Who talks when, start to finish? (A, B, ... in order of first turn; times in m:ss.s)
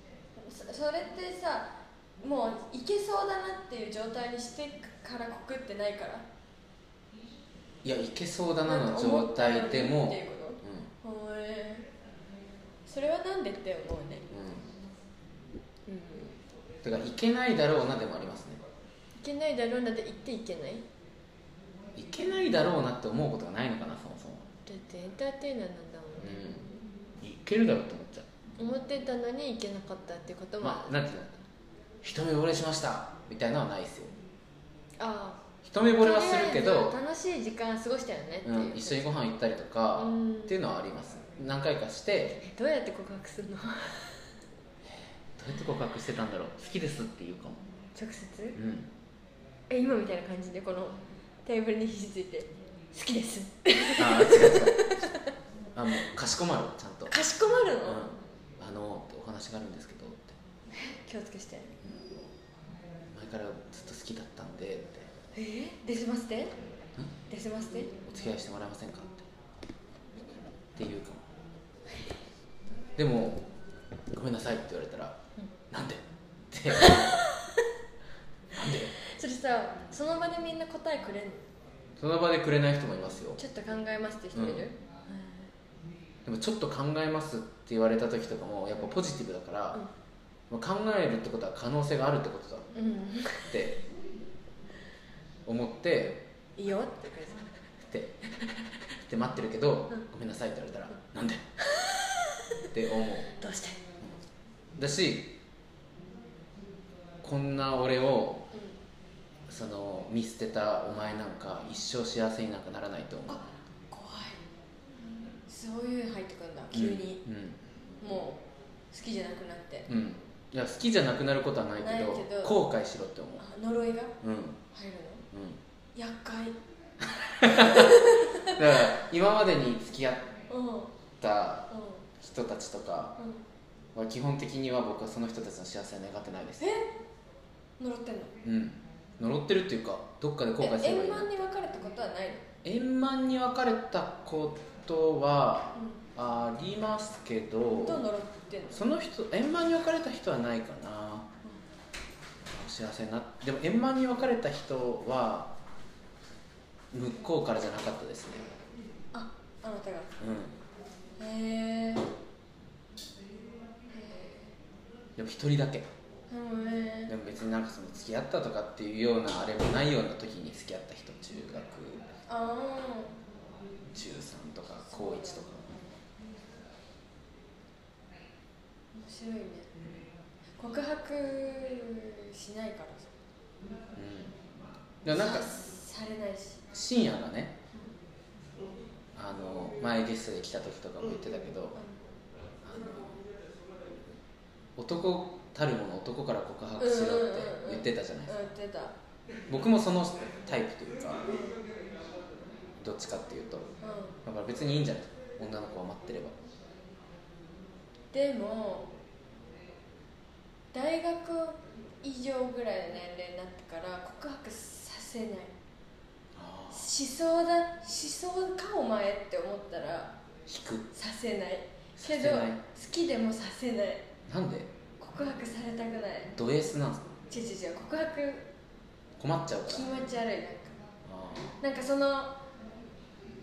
0:00.4-0:06.2 A
0:07.8-0:10.9 B
0:08.6-0:11.9 A
0:12.9-0:14.3 A
0:14.3-0:14.7 B
0:15.9-0:16.4 A
0:16.8-0:18.6 B
0:19.2-0:20.8 A
0:22.0-0:24.5 B
0:24.7-0:26.4 A
0:26.2-0:26.7 B
0:27.2-0:28.3 B
0:28.6-0:31.0 A
0:30.6-0:31.4 B
0:32.0-0:34.1 B
0:35.0-0:35.4 A
0:35.6-0:37.0 B
0:36.0-0:39.1 A
0:38.4-0:42.4 B
0:40.0-0:40.6 A
0:42.3-0:44.2 A
0:44.8-0:47.6 B
0:48.0-0:48.6 A
0:48.6-0:48.9 B
0:49.7-0:55.3 A
0:54.0-0:54.9 B
0:55.8-0:57.2 B
0:57.1-0:58.1 A
0:57.8-1:00.4 B
1:00.7-1:01.7 A
1:03.1-1:05.1 B
1:05.4-1:06.6 A
1:07.3-1:08.0 A
1:08.0-1:09.3 B
1:10.8-1:11.3 B
1:13.0-1:13.5 B
1:14.1-1:15.2 B
1:15.7-1:17.2 B
1:16.7-1:17.7 A
1:18.5-1:18.9 B
1:19.0-1:21.4 A
1:22.0-1:23.4 B
1:23.4-1:25.5 A
1:24.3-1:24.7 B
1:26.2-1:29.8 B
1:30.5-1:32.7 B
1:32.7-1:33.5 A
1:33.5-1:33.8 B
1:35.4-1:36.3 B
1:36.6-1:37.5 A
1:37.9-1:41.4 B
1:41.7-1:42.4 A
1:42.7-1:43.3 B
1:43.4-1:43.8 A
1:44.8-1:45.3 B
1:47.2-1:48.5 B
1:49.5-1:53.4 B
1:53.3-1:54.4 A
1:55.5-1:57.2 A
1:56.7-1:57.6 B
1:58.0-1:59.9 A
1:59.9-2:03.4 B
2:01.8-2:02.6 A
2:03.4-2:04.2 A
2:04.2-2:04.6 B
2:04.7-2:05.2 A
2:05.3-2:05.6 B
2:06.0-2:06.6 A
2:07.4-2:10.3 B
2:07.4-2:08.8 A
2:10.5-2:10.9 A
2:11.2-2:13.2 B
2:11.7-2:12.0 A
2:13.2-2:13.4 A
2:13.9-2:16.7 B
2:16.6-2:16.9 A
2:17.8-2:18.4 A
2:18.4-2:21.4 B
2:20.6-2:22.5 A
2:22.6-2:28.0 B
2:27.7-2:28.8 A
2:28.7-2:31.3 B
2:32.5-2:35.5 B
2:36.9-2:38.5 B
2:39.1-2:40.1 A
2:40.2-2:40.6 B
2:41.2-2:42.1 A
2:43.9-2:44.5 A
2:45.2-2:45.9 B
2:46.3-2:47.1 A
2:47.1-2:52.1 B
2:52.3-2:53.2 A
2:53.9-2:55.7 B
2:54.9-2:55.8 A
2:58.9-2:59.7 A
3:00.6-3:03.1 A
3:03.9-3:04.4 B
3:05.0-3:05.5 B
3:05.1-3:06.6 A
3:06.7-3:07.6 B
3:09.2-3:11.8 B
3:12.6-3:13.1 B
3:14.8-3:18.5 B
3:16.8-3:19.0 A
3:19.5-3:21.3 B
3:21.3-3:21.6 A
3:22.8-3:23.7 B
3:23.8-3:24.2 A
3:24.2-3:26.4 B
3:28.1-3:28.9 A
3:30.7-3:35.5 A
3:36.4-3:36.9 B
3:36.7-3:40.2 A
3:40.5-3:40.9 B
3:40.9-3:44.1 A
3:42.0-3:42.6 B
3:44.3-3:44.7 B
3:45.0-3:46.3 A
3:46.4-3:47.1 B
3:47.3-3:48.5 A
3:49.2-3:49.9 B
3:49.7-3:50.8 A
3:51.1-3:51.6 B
3:51.6-3:52.4 A